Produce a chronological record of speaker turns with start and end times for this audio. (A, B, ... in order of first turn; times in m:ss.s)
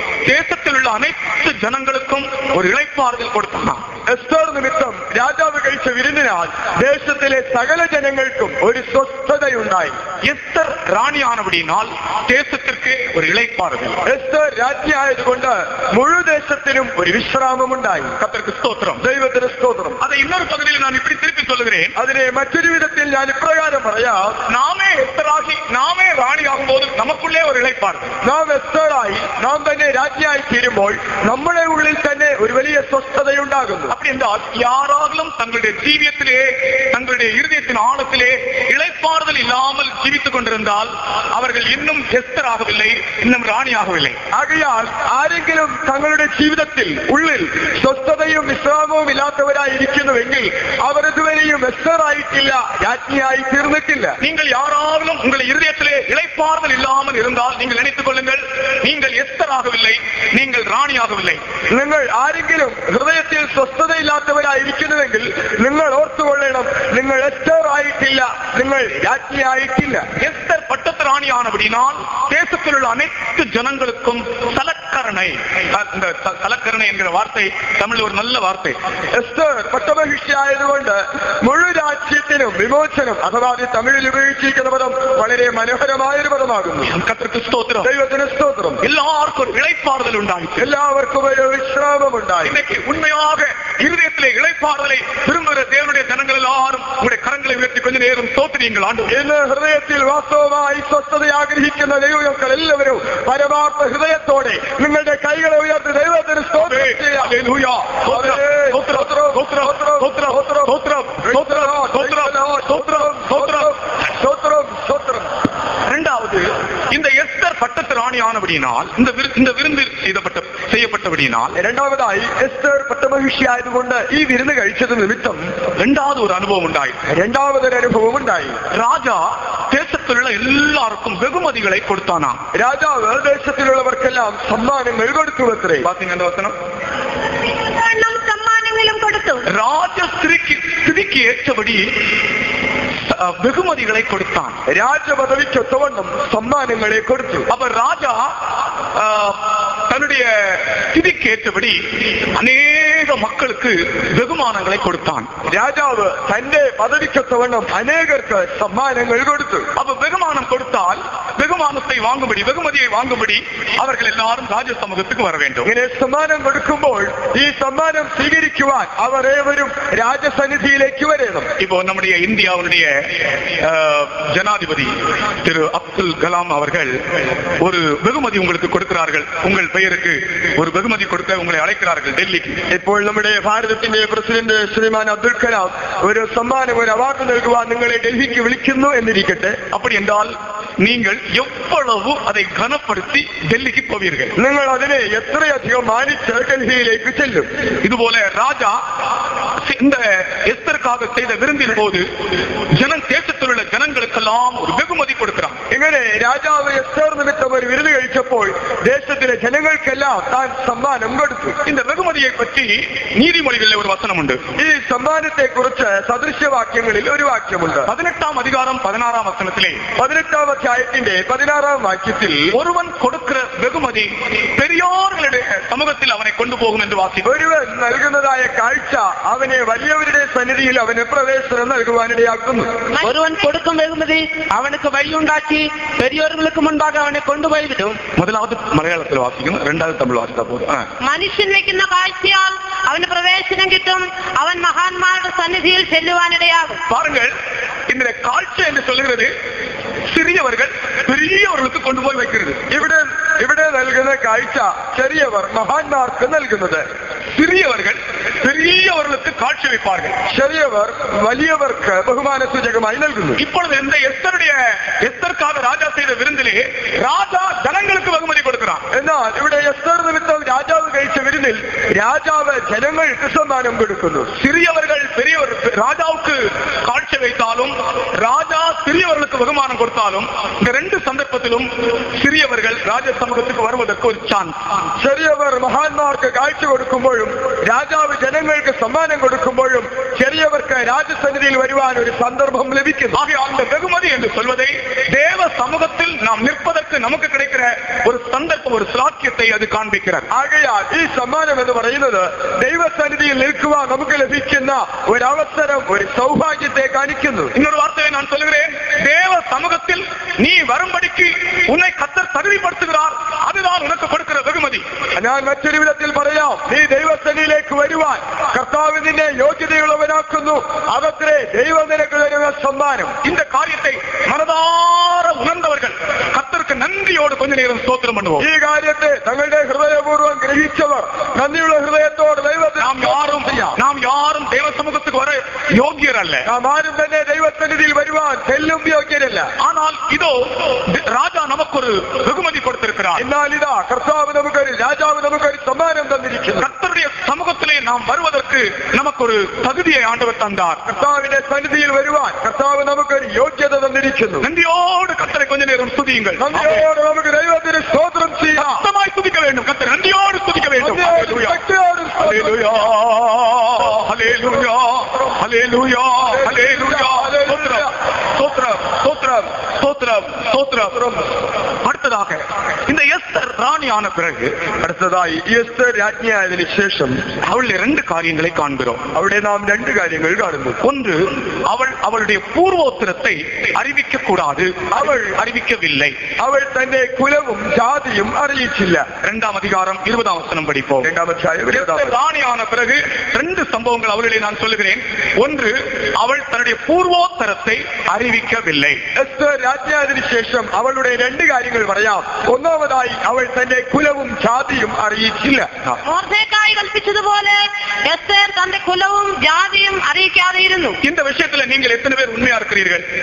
0:00.2-0:03.8 A
0:04.1-0:10.0 B
0:10.2-0:14.0 A
0:14.0-0:18.2 B
0:18.2-0:19.0 A
0:19.0-0:20.0 B
0:20.0-0:21.9 A
0:22.0-0:24.4 B
0:24.5-0:28.1 A
0:28.2-0:33.9 B
0:33.9-0:44.2 A
0:44.3-0:54.2 B
0:54.2-1:01.4 A
1:01.7-1:10.1 B
1:10.2-1:18.8 A
1:19.2-1:26.9 B
1:26.8-1:27.9 A
1:27.8-1:28.8 B
1:28.8-1:30.7 A
1:30.6-1:32.6 B
1:32.4-1:39.1 A
1:39.1-1:47.3 B
1:46.6-1:53.7 A
1:48.1-1:50.7 B
1:51.2-1:55.3 B
1:55.9-2:01.5 A
2:01.6-2:05.5 B
2:05.8-2:07.0 A
2:07.1-2:08.6 B
2:08.7-2:12.4 A
2:12.5-2:15.9 B
2:15.8-2:16.5 A
2:17.4-2:19.5 C
2:19.5-2:21.9 A
2:23.0-2:24.6 A
2:24.7-2:27.5 B
2:27.5-2:28.3 A
2:28.9-2:31.8 A
2:32.4-2:35.3 A
2:35.5-2:39.7 B
2:39.8-2:45.7 A
2:45.6-2:51.5 B
2:51.6-2:57.0 A
2:57.6-3:02.6 A
3:02.7-3:09.6 B
3:09.7-3:14.3 A
3:14.4-3:17.5 B
3:17.8-3:18.8 A
3:19.6-3:22.0 A
3:22.7-3:25.6 A
3:25.7-3:31.6 B
3:31.6-3:34.4 A
3:34.6-3:37.9 B
3:37.9-3:39.8 A
3:40.0-3:42.5 B
3:42.5-3:47.3 A
3:47.2-3:52.7 B
3:53.0-3:58.0 D
3:58.2-4:00.9 A
4:01.0-4:06.8 C
4:06.9-4:07.3 A
4:07.9-4:09.3 A
4:10.1-4:12.7 A
4:12.7-4:16.8 B
4:17.3-4:20.2 A
4:20.3-4:23.4 B
4:23.4-4:28.8 A
4:28.9-4:34.3 B
4:34.3-4:44.6 A
4:45.0-4:53.2 B
4:53.1-5:00.3 A
5:00.3-5:07.5 B
5:07.5-5:14.8 A
5:15.2-5:23.2 B
5:23.2-5:28.5 A
5:28.4-5:33.8 B
5:32.8-5:36.4 A
5:36.4-5:39.5 B
5:39.6-5:43.2 A
5:43.2-5:46.7 B
5:46.6-5:50.8 A
5:50.9-5:54.4 B
5:54.4-5:56.8 A
5:56.4-5:58.8 B
5:58.6-6:01.6 A
6:00.8-6:02.8 B
6:02.2-6:11.1 A
6:06.3-6:07.9 B
6:11.8-6:14.6 A
6:14.8-6:17.2 B
6:17.4-6:19.0 A
6:19.1-6:20.8 B
6:20.8-6:26.2 A
6:24.9-6:25.2 B
6:26.4-6:29.1 B
6:29.2-6:31.1 A
6:31.0-6:32.1 B
6:31.7-6:39.0 A
6:39.1-6:45.7 B
6:46.2-6:47.5 C
6:48.1-6:50.9 C
6:51.0-6:53.0 A